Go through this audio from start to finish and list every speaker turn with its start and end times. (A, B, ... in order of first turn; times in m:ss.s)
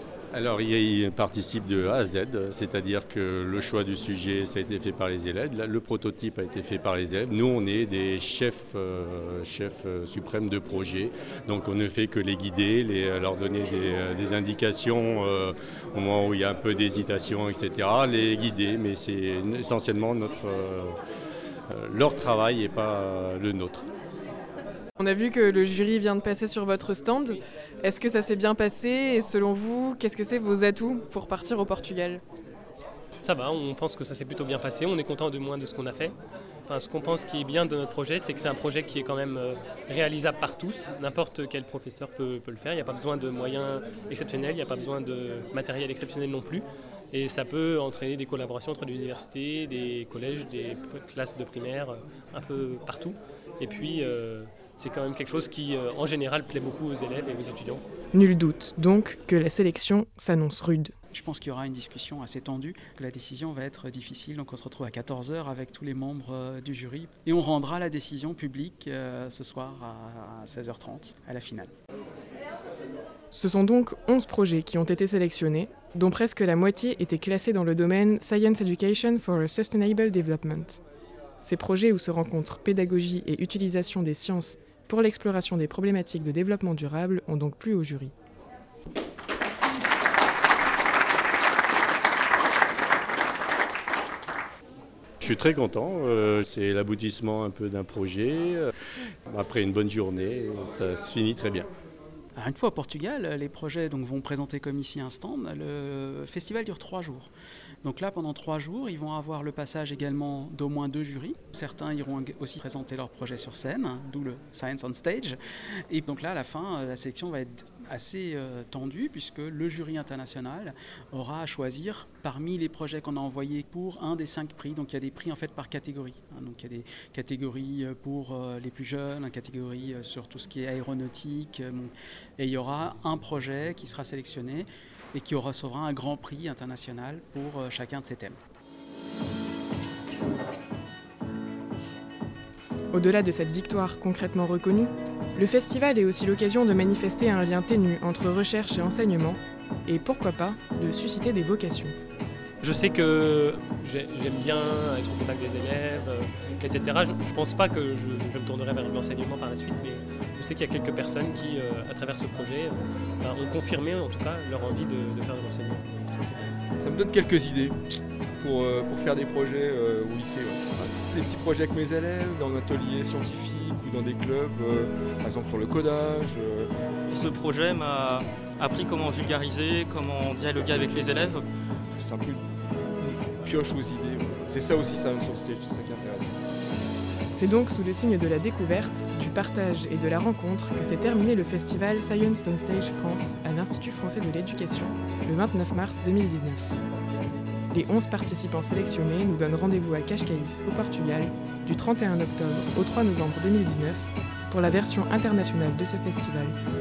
0:00.3-0:21.0 A
0:21.7-0:23.9 A
0:25.0-0:32.2 B
0:33.2-0:36.1 C
0:36.7-0:57.8 C
0:58.1-1:00.9 B
1:01.1-1:11.7 D
1:13.3-1:20.8 B
1:21.4-1:28.1 B
1:35.2-1:38.7 A
1:39.3-1:41.7 A
1:42.4-1:47.3 D
1:47.8-1:55.4 D
1:55.9-2:18.4 D
2:22.9-2:31.9 B
2:32.6-2:46.5 C
2:46.8-2:47.8 E
2:48.4-2:56.7 E
2:57.1-3:01.4 F
3:01.9-3:02.4 E
3:03.0-3:06.4 E
3:07.3-3:16.8 B
3:17.7-3:26.6 B